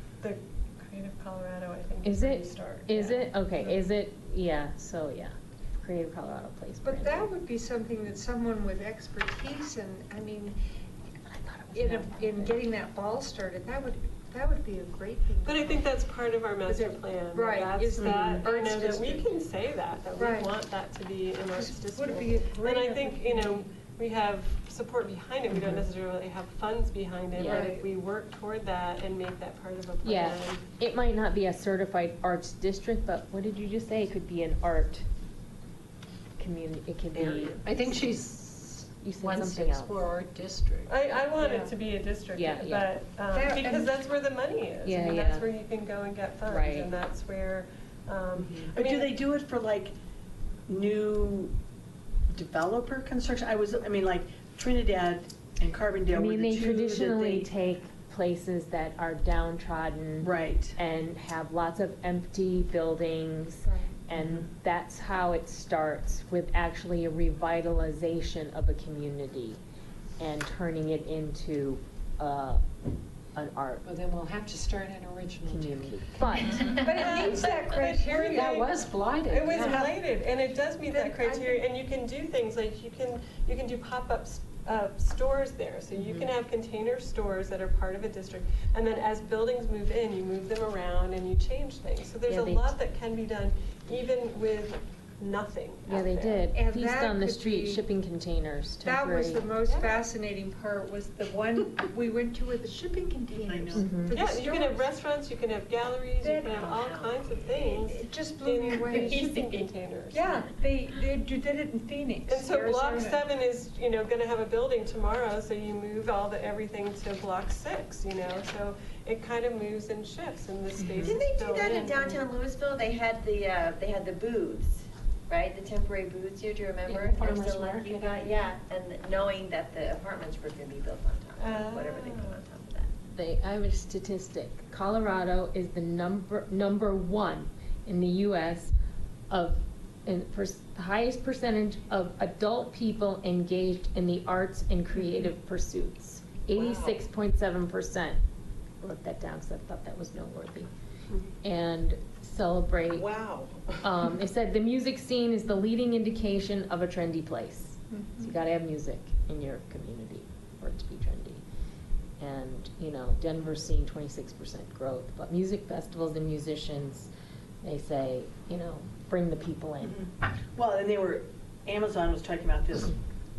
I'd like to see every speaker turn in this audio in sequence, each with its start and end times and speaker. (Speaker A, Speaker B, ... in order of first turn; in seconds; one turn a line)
Speaker A: 0.2-3.8
Speaker B: 2.0-7.3
Speaker C: 6.8-10.6
Speaker B: 11.3-12.6
Speaker C: 11.7-15.9
Speaker A: 15.5-30.6
Speaker C: 16.6-19.3
Speaker D: 18.0-18.4
Speaker C: 20.2-20.5
Speaker C: 21.6-23.7
Speaker B: 27.4-27.7
Speaker C: 27.4-27.8
Speaker B: 30.0-35.0
Speaker B: 36.4-38.1
Speaker E: 37.1-37.9
Speaker F: 37.6-40.9
Speaker B: 39.0-40.0
Speaker A: 40.9-49.2
Speaker C: 41.4-41.7
Speaker B: 42.4-42.9
Speaker C: 43.3-44.0
Speaker B: 44.8-45.5
Speaker B: 46.5-46.9
Speaker B: 48.4-48.7
Speaker D: 48.7-49.9
Speaker D: 50.7-51.5
Speaker D: 52.3-57.5
Speaker B: 56.1-69.6
Speaker D: 60.2-60.8
Speaker C: 63.6-64.0
Speaker D: 64.1-64.5
Speaker B: 70.2-72.6
Speaker B: 73.3-73.8
Speaker F: 73.8-79.8
Speaker B: 75.5-76.8
Speaker C: 76.7-78.5
Speaker A: 76.7-96.5
Speaker C: 80.9-81.6
Speaker B: 86.0-86.3
Speaker B: 92.3-92.7
Speaker B: 95.9-99.5
Speaker C: 96.5-97.8
Speaker C: 98.8-104.9
Speaker A: 99.7-100.0
Speaker D: 103.4-103.9
Speaker B: 103.8-104.2
Speaker A: 104.1-110.3
Speaker C: 106.2-107.0
Speaker G: 106.5-107.9
Speaker C: 107.7-113.2
Speaker B: 110.2-110.5
Speaker A: 112.3-122.2
Speaker B: 120.8-121.1
Speaker G: 121.0-132.9
Speaker F: 126.9-128.3
Speaker B: 127.1-127.5
Speaker A: 131.4-132.4
Speaker B: 133.1-138.7
Speaker B: 139.3-148.2
Speaker E: 146.6-146.9
Speaker B: 148.8-150.7
Speaker B: 151.4-153.1
Speaker E: 152.9-153.9
Speaker B: 153.8-161.4
Speaker C: 157.9-158.3
Speaker B: 162.2-167.1
Speaker B: 167.6-170.0
Speaker D: 169.8-173.0